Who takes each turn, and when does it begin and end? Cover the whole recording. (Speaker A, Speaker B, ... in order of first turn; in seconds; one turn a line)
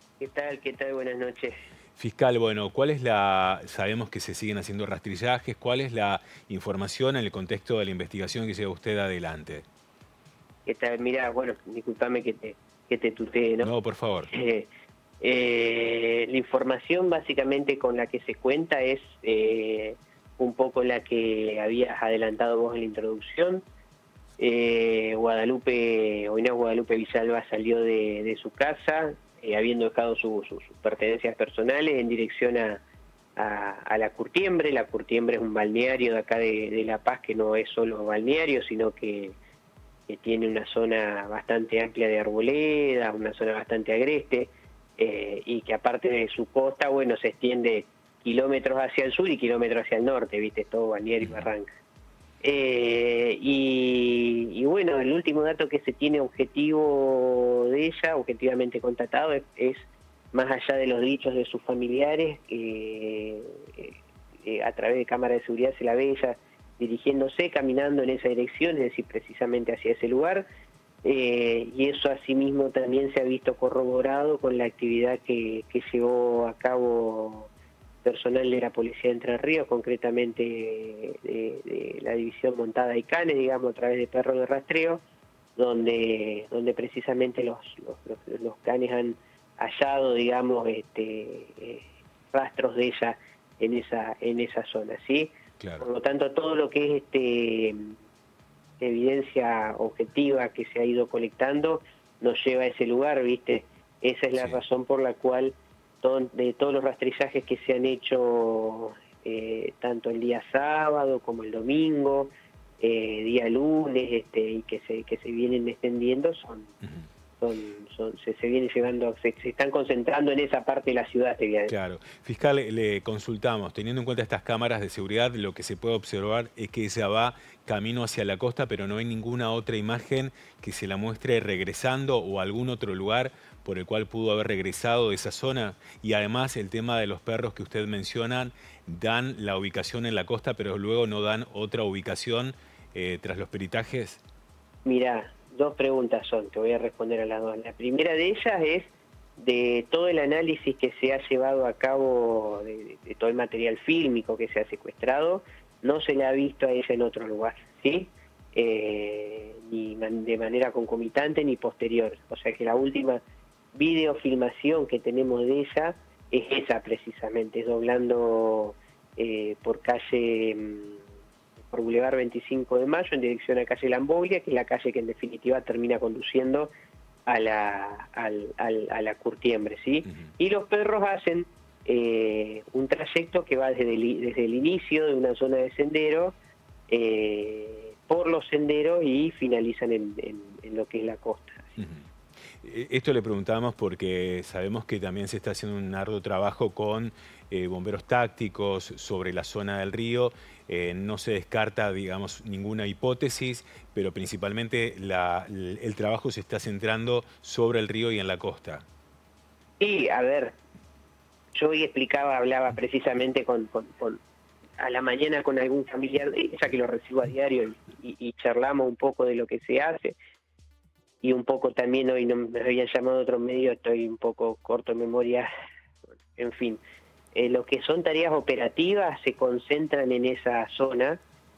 Speaker A: 0.2-1.6
Speaker B: 2.0-9.6
Speaker A: 10.7-13.7
Speaker B: 13.6-14.3
Speaker A: 14.3-14.7
Speaker A: 15.2-23.6
Speaker A: 24.4-32.8
Speaker A: 33.4-39.4
Speaker A: 40.1-51.7
Speaker B: 51.2-51.5
Speaker A: 52.4-70.4
Speaker A: 71.0-77.5
Speaker A: 78.0-85.0
Speaker A: 85.5-97.9
Speaker B: 95.6-95.9
Speaker A: 98.8-116.7
Speaker A: 117.4-121.7
Speaker B: 121.7-144.2
Speaker A: 144.8-163.2
Speaker A: 163.7-171.0
Speaker A: 171.7-176.7
Speaker A: 177.3-186.3
Speaker A: 186.9-191.8
Speaker B: 191.8-192.1
Speaker B: 192.6-208.8
Speaker A: 209.8-210.5
Speaker A: 211.5-214.2
Speaker A: 214.8-220.2
Speaker A: 221.2-225.5
Speaker A: 226.3-226.8
Speaker A: 227.3-231.2